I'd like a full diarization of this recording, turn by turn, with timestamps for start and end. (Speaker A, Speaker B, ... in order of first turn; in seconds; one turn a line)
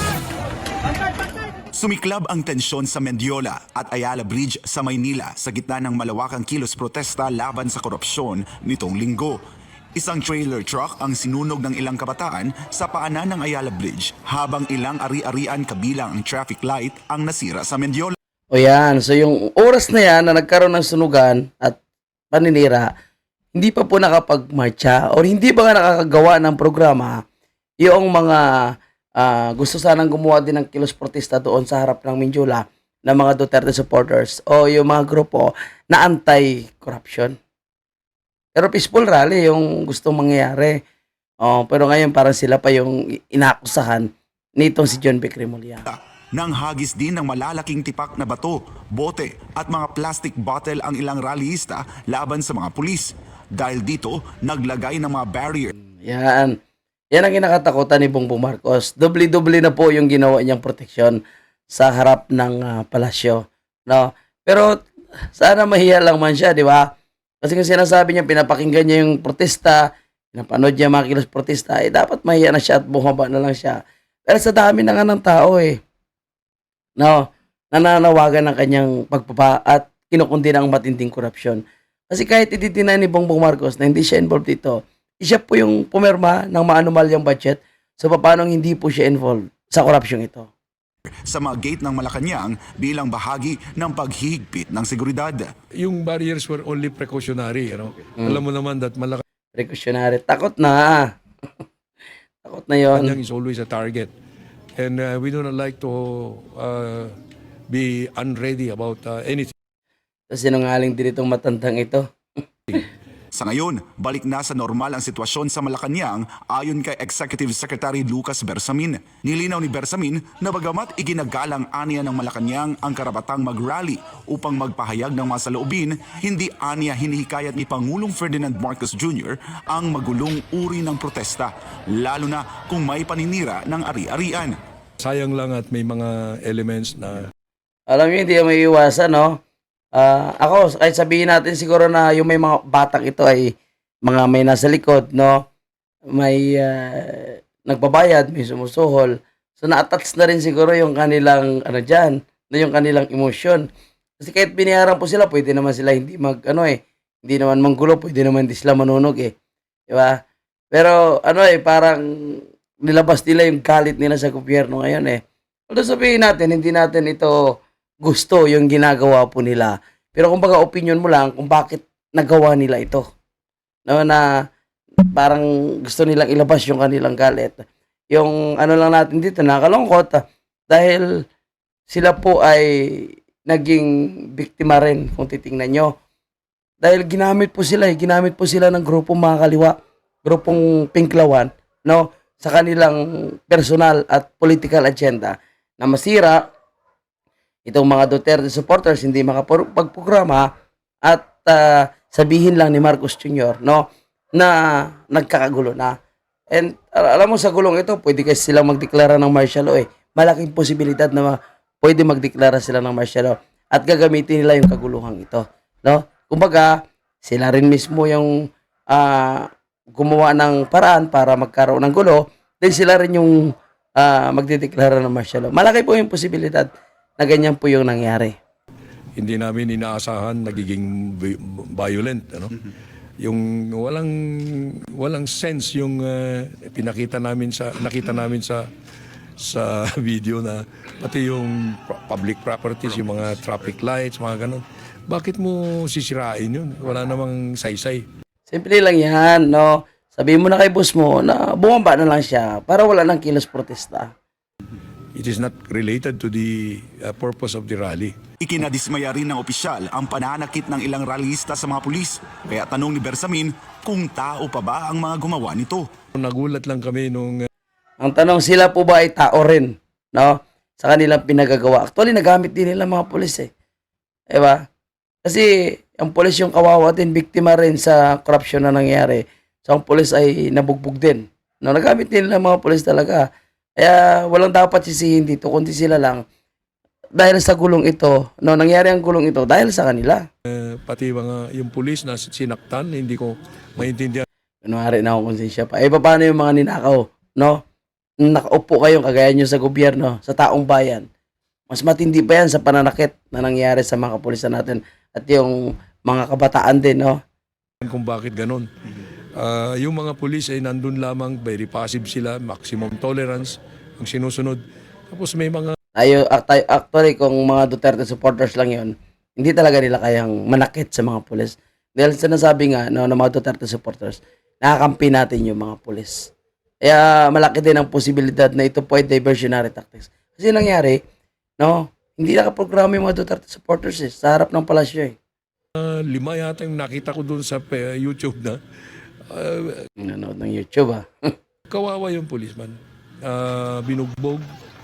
Speaker A: 1.8-9.4
Speaker A: 9.9-18.1
Speaker B: 18.5-21.8
Speaker B: 22.3-22.9
Speaker B: 23.5-27.1
Speaker B: 27.8-28.4
Speaker B: 29.2-37.3
Speaker B: 38.5-40.8
Speaker B: 41.4-45.9
Speaker A: 45.9-55.7
Speaker B: 56.0-56.5
Speaker B: 57.1-61.2
Speaker B: 61.7-66.9
Speaker B: 67.4-69.8
Speaker B: 70.3-75.8
Speaker B: 77.0-90.5
Speaker A: 91.3-95.5
Speaker C: 95.8-99.2
Speaker B: 99.5-101.0
Speaker B: 102.4-103.2
Speaker C: 102.9-104.1
Speaker C: 104.8-107.1
Speaker C: 107.7-109.5
Speaker B: 110.3-112.0
Speaker A: 113.3-134.5
Speaker C: 135.0-137.3
Speaker B: 137.9-139.4
Speaker B: 139.9-143.5
Speaker B: 144.0-145.4
Speaker B: 146.1-153.7
Speaker B: 154.2-159.3
Speaker B: 159.9-160.2
Speaker B: 160.7-173.0
Speaker B: 173.9-174.2
Speaker B: 175.1-181.1
Speaker B: 181.9-185.9
Speaker B: 186.8-196.4
Speaker B: 197.7-200.5
Speaker B: 201.1-203.8
Speaker B: 204.3-205.9
Speaker B: 206.5-218.3
Speaker B: 218.9-223.4
Speaker B: 224.0-228.3
Speaker C: 229.2-232.6
Speaker C: 233.2-238.6
Speaker C: 239.4-248.0
Speaker B: 248.5-254.1
Speaker C: 255.1-258.1
Speaker A: 258.4-265.9
Speaker C: 266.1-267.3
Speaker B: 268.0-273.5
Speaker B: 274.3-274.6
Speaker B: 275.2-283.3
Speaker B: 283.8-286.2
Speaker B: 287.2-290.2
Speaker C: 290.5-294.2
Speaker B: 294.6-297.6
Speaker B: 298.2-301.0
Speaker B: 301.7-307.2
Speaker C: 307.8-308.7
Speaker C: 309.4-315.8
Speaker B: 316.0-326.3
Speaker B: 326.8-331.0
Speaker B: 331.6-335.1
Speaker C: 335.8-338.6
Speaker C: 339.3-339.8
Speaker B: 340.0-341.0
Speaker C: 341.7-342.7
Speaker C: 343.2-344.4